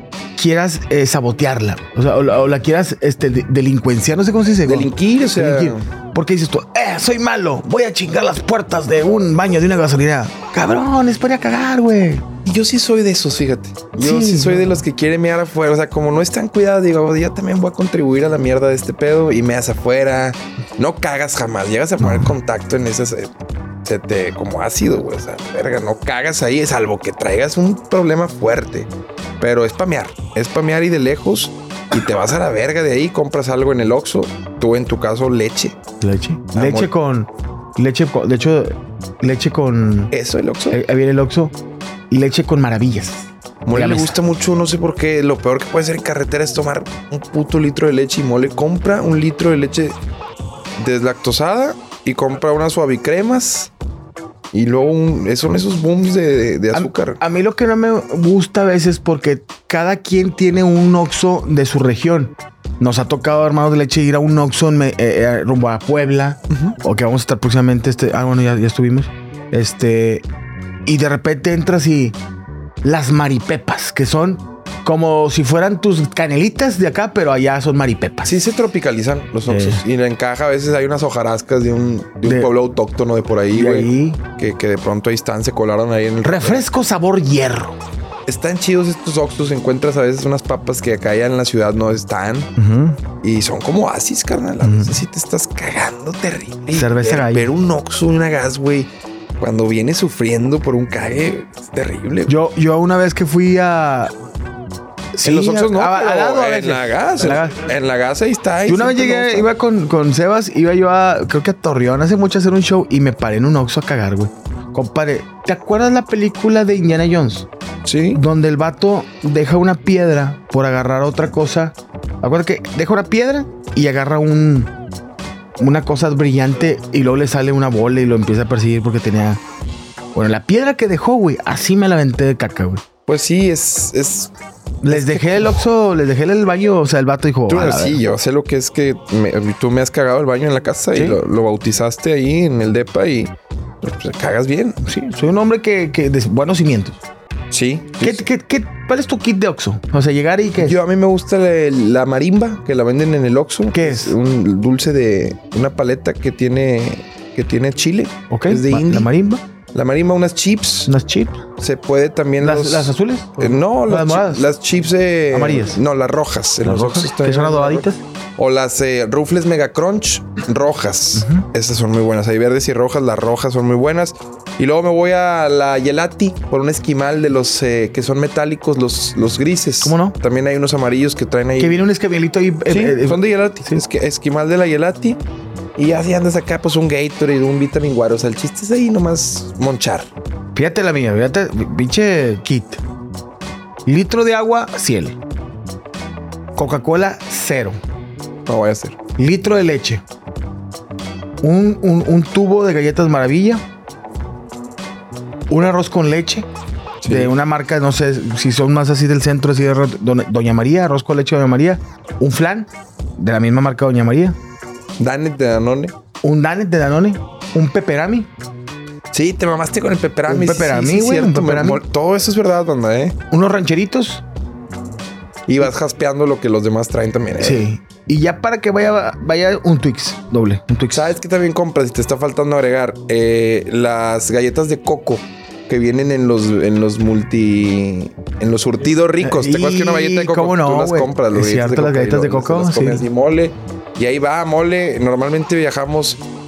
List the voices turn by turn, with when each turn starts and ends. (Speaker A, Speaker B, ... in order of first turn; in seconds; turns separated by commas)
Speaker A: 0.4-12.2, Speaker B: 4.6-5.8, Speaker B: 12.4-23.3, Speaker A: 14.0-14.8, Speaker A: 22.0-22.3, Speaker B: 23.8-28.9, Speaker B: 29.4-35.8, Speaker A: 36.0-40.1, Speaker B: 36.5-36.9, Speaker B: 40.1-40.8, Speaker A: 40.7-41.5, Speaker A: 42.1-44.2, Speaker B: 43.7-50.0, Speaker B: 50.8-53.7, Speaker B: 54.5-57.2, Speaker A: 56.7-70.3, Speaker B: 66.5-66.8, Speaker A: 70.9-72.2, Speaker A: 72.8-78.4, Speaker B: 78.2-86.6, Speaker A: 79.5-79.8, Speaker A: 82.2-82.5, Speaker A: 83.5-84.2, Speaker A: 86.2-87.8, Speaker B: 88.3-92.5, Speaker A: 92.6-93.0, Speaker B: 93.2-102.3, Speaker A: 94.6-95.0, Speaker A: 96.7-97.5, Speaker A: 102.3-104.1, Speaker A: 105.1-107.7, Speaker B: 105.2-109.5, Speaker A: 108.7-117.5, Speaker B: 117.8-118.2, Speaker A: 118.1-124.7, Speaker A: 125.6-129.4, Speaker A: 130.2-132.8, Speaker B: 133.1-134.3, Speaker A: 134.8-138.0, Speaker B: 134.9-135.6, Speaker B: 137.5-144.8, Speaker A: 140.9-141.2, Speaker A: 144.8-147.0, Speaker B: 147.5-148.2, Speaker A: 148.0-150.8, Speaker B: 150.6-159.1, Speaker A: 153.7-154.2, Speaker A: 158.3-159.4, Speaker B: 159.7-160.9, Speaker A: 160.9-161.4, Speaker B: 161.6-181.8, Speaker A: 162.4-164.5, Speaker A: 165.3-165.8, Speaker A: 166.6-168.0, Speaker A: 171.2-171.5, Speaker A: 179.8-180.2, Speaker A: 181.6-183.8, Speaker B: 182.7-185.2, Speaker B: 185.8-190.1, Speaker A: 190.6-192.8, Speaker A: 193.8-195.2, Speaker A: 196.6-197.8, Speaker B: 198.5-199.0, Speaker A: 199.2-200.0, Speaker A: 201.4-203.6, Speaker A: 205.5-206.5, Speaker B: 207.0-207.3, Speaker A: 207.1-214.4, Speaker B: 215.0-215.9, Speaker A: 216.2-218.3, Speaker B: 219.1-223.2, Speaker A: 220.3-221.8, Speaker A: 223.3-224.2, Speaker B: 225.5-227.7, Speaker A: 227.4-231.2, Speaker B: 230.9-246.2, Speaker A: 239.2-243.1